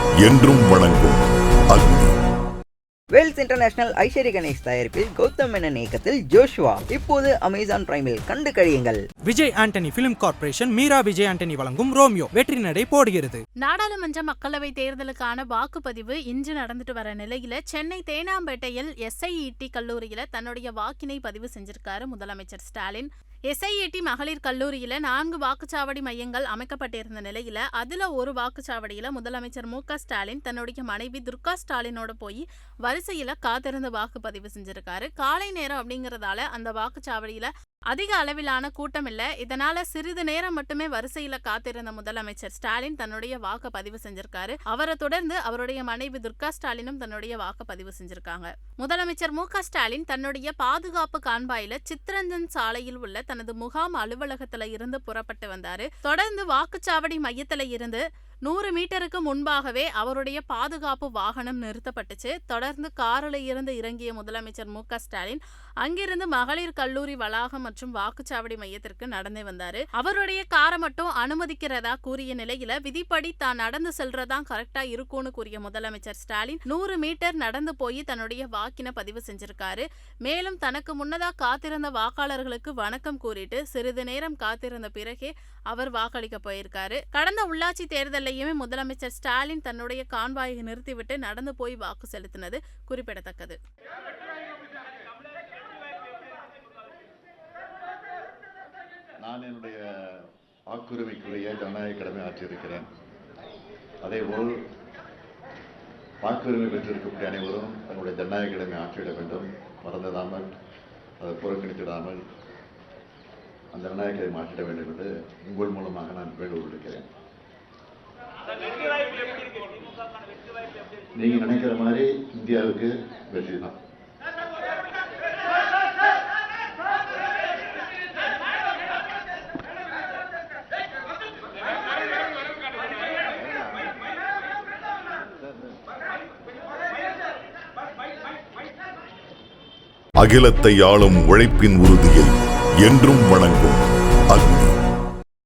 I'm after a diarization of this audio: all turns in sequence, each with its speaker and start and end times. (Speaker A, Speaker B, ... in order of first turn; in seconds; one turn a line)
Speaker A: 0.2-1.2
Speaker A: 1.7-2.1
Speaker B: 3.1-9.0
Speaker C: 9.3-13.4
Speaker D: 13.6-93.6
Speaker E: 99.2-99.8
Speaker E: 100.7-102.9
Speaker E: 104.0-104.5
Speaker E: 106.2-110.5
Speaker E: 111.2-112.2
Speaker E: 113.7-117.0
Speaker E: 121.2-123.7
Speaker A: 140.2-142.3
Speaker A: 142.8-143.8
Speaker A: 144.3-144.7